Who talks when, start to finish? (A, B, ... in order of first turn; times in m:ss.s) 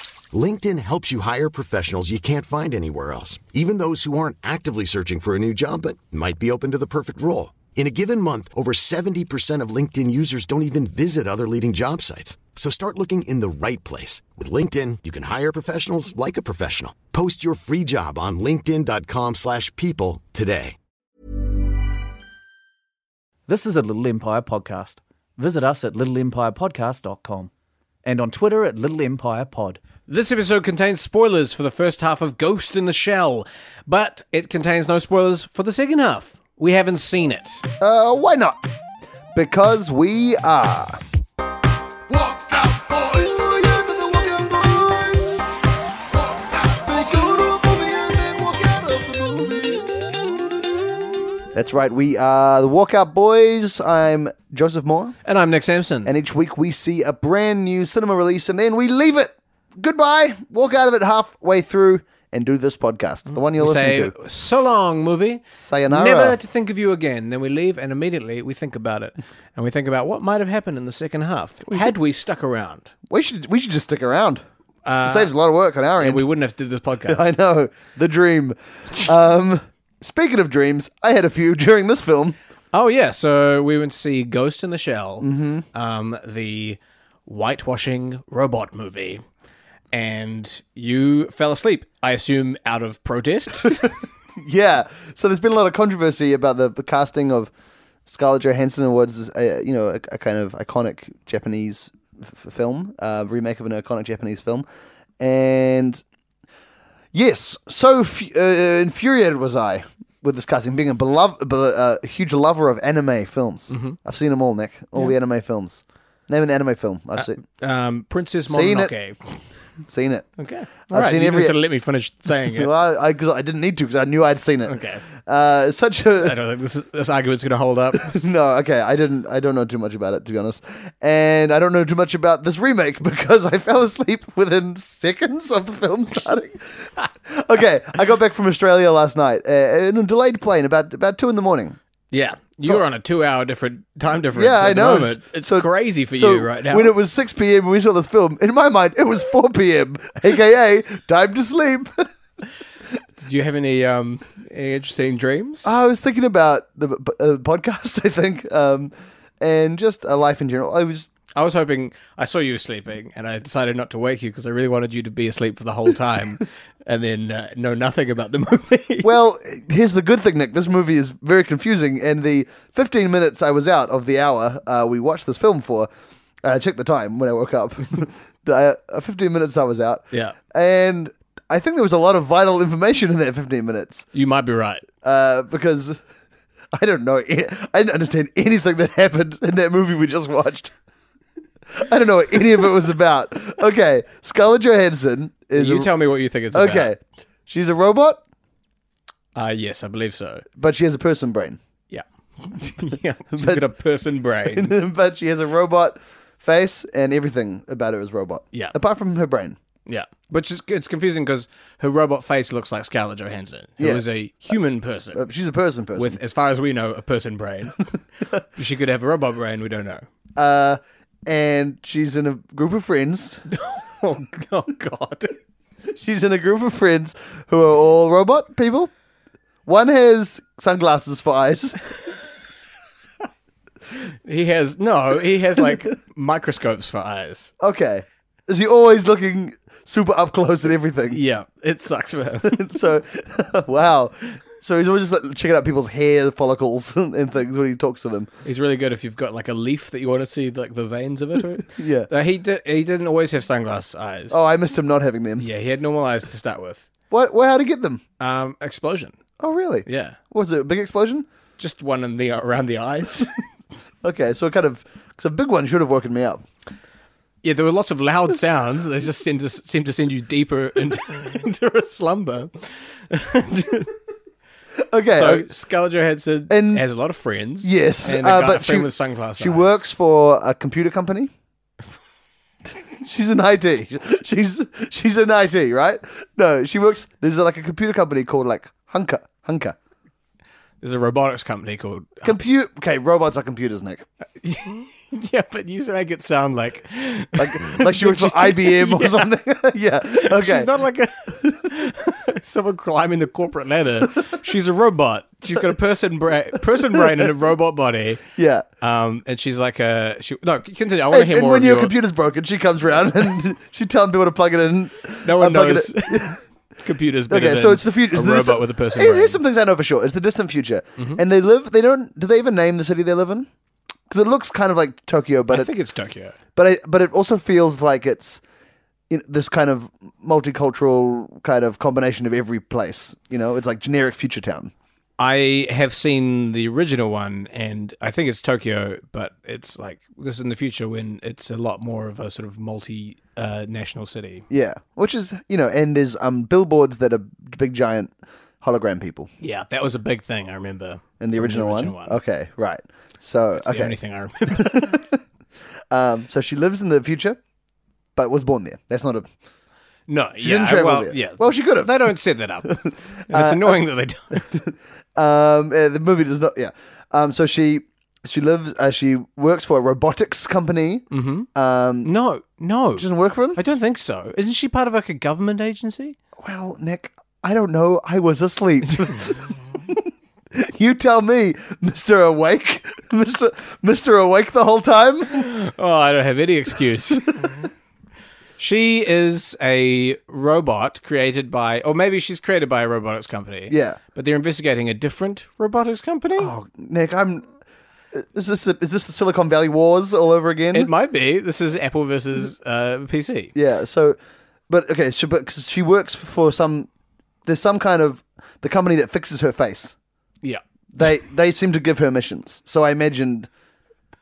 0:00.3-0:20.8 A
0:23.5-0:27.5 B
0:28.0-0:29.8 B
0:30.1-0:37.6 C
0:37.8-0:38.6 D
0:39.3-0:41.0 D
0:42.1-0:45.4 D
0:46.1-0:49.9 D
0:51.5-0:55.2 D
0:55.2-0:56.1 C
0:56.0-1:04.1 D
1:03.3-1:12.9 C
1:05.5-1:06.4 D
1:13.1-1:14.4 D
1:14.8-1:15.3 C
1:15.0-1:16.2 D
1:16.0-1:17.3 C
1:17.0-1:22.4 D
1:22.7-1:29.2 C
1:25.2-1:25.6 D
1:29.9-1:34.0 C
1:34.4-1:37.5 D
1:38.0-1:44.6 D
1:45.2-1:46.0 D
1:47.1-1:57.4 D
1:53.7-1:54.0 C
1:57.2-1:59.4 C
1:58.5-1:58.9 D
1:59.8-2:00.3 D
2:00.4-2:02.7 C
2:00.9-2:01.6 D
2:02.5-2:06.4 D
2:04.7-2:05.0 C
2:06.2-2:08.1 C
2:08.0-2:21.8 D
2:22.1-2:26.9 C
2:24.3-2:32.1 D
2:33.2-2:35.8 C
2:35.6-2:41.1 D
2:41.4-2:49.2 C
2:49.0-2:55.9 D
2:56.4-3:04.1 D
3:04.1-3:04.8 C
3:05.0-3:06.0 D
3:06.7-3:10.7 D
3:11.7-3:15.9 D
3:15.5-3:16.9 C
3:16.5-3:18.2 D
3:19.3-3:20.4 C
3:20.6-3:21.6 D
3:21.9-3:24.7 C
3:23.3-3:23.6 D
3:24.4-3:29.6 D
3:29.9-3:35.2 C
3:33.8-3:34.0 D
3:35.1-3:36.2 D
3:36.0-3:37.8 C
3:38.6-3:40.0 C
3:40.4-3:43.4 D
3:43.5-3:45.4 C
3:45.9-3:48.9 D
3:49.6-3:51.8 D
3:54.2-3:57.5 C
3:57.6-4:01.2 D
4:01.1-4:02.7 C
4:02.5-4:08.3 D
4:08.4-4:14.4 C
4:11.7-4:12.1 D
4:14.3-4:15.5 D
4:15.4-4:16.9 C
4:17.1-4:18.0 D
4:18.2-4:19.2 C
4:19.4-4:21.3 D
4:19.9-4:20.2 C
4:21.6-4:23.4 C
4:24.0-4:26.4 D
4:27.4-4:33.9 C
4:34.8-4:35.5 D
4:35.1-4:39.9 C
4:36.5-4:36.8 D
4:37.6-4:41.3 D
4:43.0-4:49.8 D
4:50.8-4:52.4 C
4:52.2-4:54.0 D
4:54.4-4:59.3 C
4:57.4-5:00.7 D
5:00.1-5:08.2 C
5:06.7-5:07.3 D
5:08.4-5:08.6 D
5:08.8-5:11.9 C
5:11.1-5:16.4 D
5:15.2-5:19.4 C
5:17.3-5:23.5 D
5:24.1-5:25.7 D
5:25.5-5:26.4 C
5:26.6-5:28.4 D
5:29.1-5:34.7 D
5:35.2-5:44.4 C
5:44.5-5:49.3 D
5:49.4-5:52.2 C
5:51.2-5:53.9 D
5:53.5-5:55.0 C
5:54.5-5:55.1 D
5:55.9-5:57.4 D
5:58.2-5:59.3 D
6:00.1-6:04.4 C
6:00.4-6:03.8 D
6:04.4-6:12.1 D
6:11.1-6:11.5 C
6:12.0-6:16.2 C
6:13.0-6:13.6 D
6:16.4-6:25.5 D
6:25.3-6:27.6 C
6:28.6-6:36.5 C
6:33.7-6:34.0 D
6:36.4-6:37.4 D
6:38.1-6:40.9 D
6:40.7-6:43.5 C
6:43.5-6:44.2 D
6:44.7-6:46.9 D
6:47.4-6:49.9 D
6:50.9-6:53.5 D